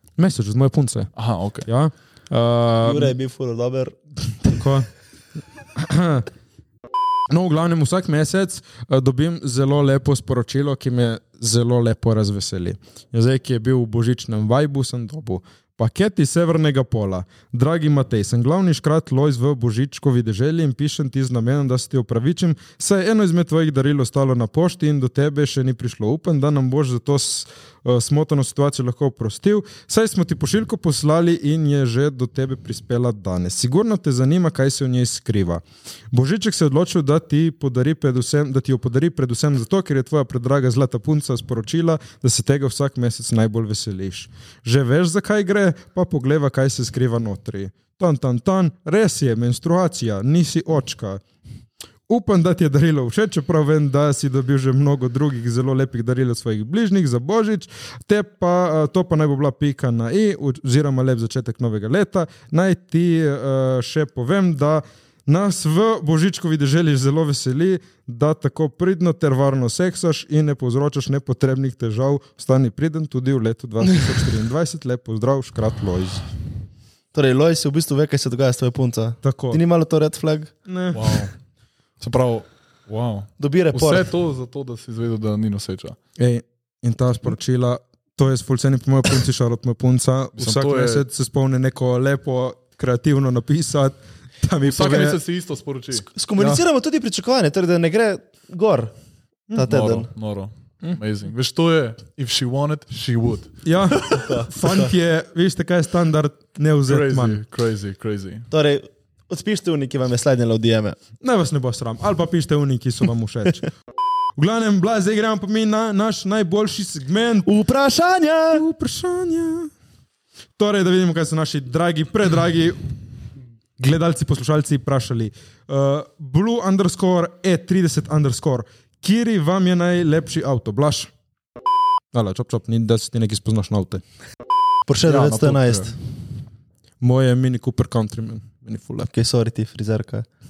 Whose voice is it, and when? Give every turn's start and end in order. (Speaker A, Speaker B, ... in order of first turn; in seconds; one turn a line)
Speaker A: 0.2-1.1
Speaker B: 1.2-1.7
Speaker A: 1.6-3.1
Speaker C: 2.8-4.0
Speaker A: 4.5-4.9
Speaker A: 5.8-6.3
Speaker A: 7.3-51.2
Speaker A: 52.1-76.2
Speaker C: 77.1-80.5
Speaker A: 79.2-79.6
Speaker A: 80.7-81.2
Speaker B: 80.9-81.3
Speaker B: 82.0-86.0
Speaker C: 83.4-84.1
Speaker A: 86.2-95.2
Speaker B: 90.4-91.0
Speaker B: 94.6-96.1
Speaker C: 96.1-98.9
Speaker C: 99.5-100.1
Speaker B: 99.7-104.2
Speaker A: 103.7-107.4
Speaker C: 104.2-104.9
Speaker B: 106.9-108.5
Speaker C: 108.5-111.0
Speaker A: 111.2-113.7
Speaker A: 114.4-117.5
Speaker C: 117.5-118.6
Speaker A: 118.5-119.7
Speaker A: 120.6-122.9
Speaker A: 123.8-131.1
Speaker A: 132.1-134.0
Speaker C: 134.9-135.9
Speaker B: 135.1-135.9
Speaker A: 137.0-139.1
Speaker C: 139.1-140.3